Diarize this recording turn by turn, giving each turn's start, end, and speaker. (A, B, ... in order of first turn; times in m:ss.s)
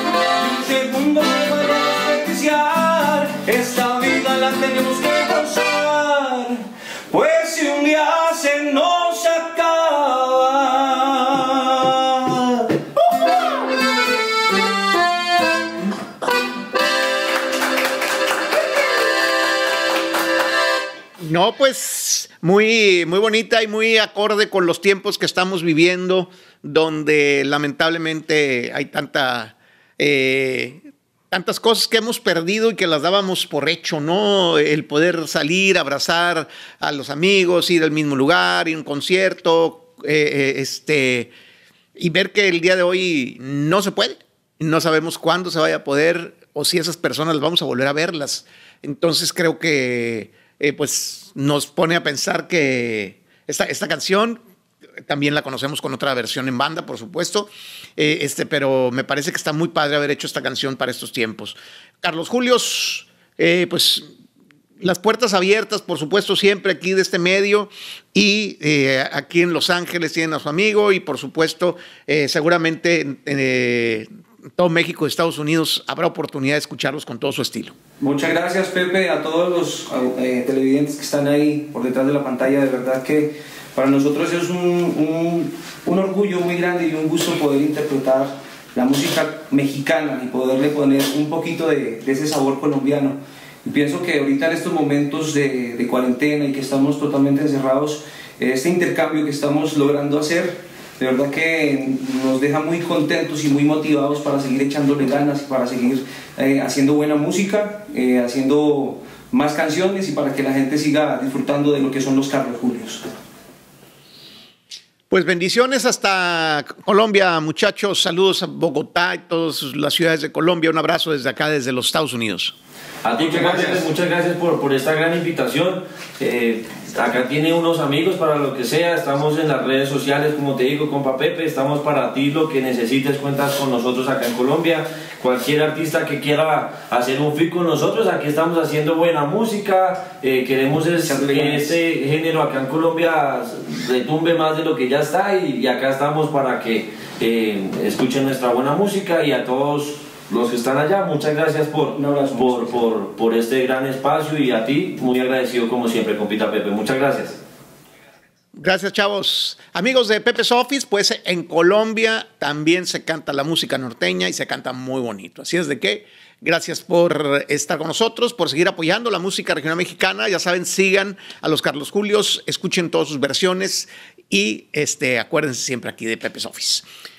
0:00.4-0:12.7 A
0:21.2-0:41.3 B
0:42.0-0:54.4 B
0:55.1-1:04.1 B
1:04.8-1:17.8 B
1:18.0-1:53.1 A
1:55.1-2:02.6 B
2:03.0-2:37.4 C
2:03.2-2:03.8 A
2:21.1-2:21.8 A
2:32.0-2:32.8 A
2:38.6-2:56.9 B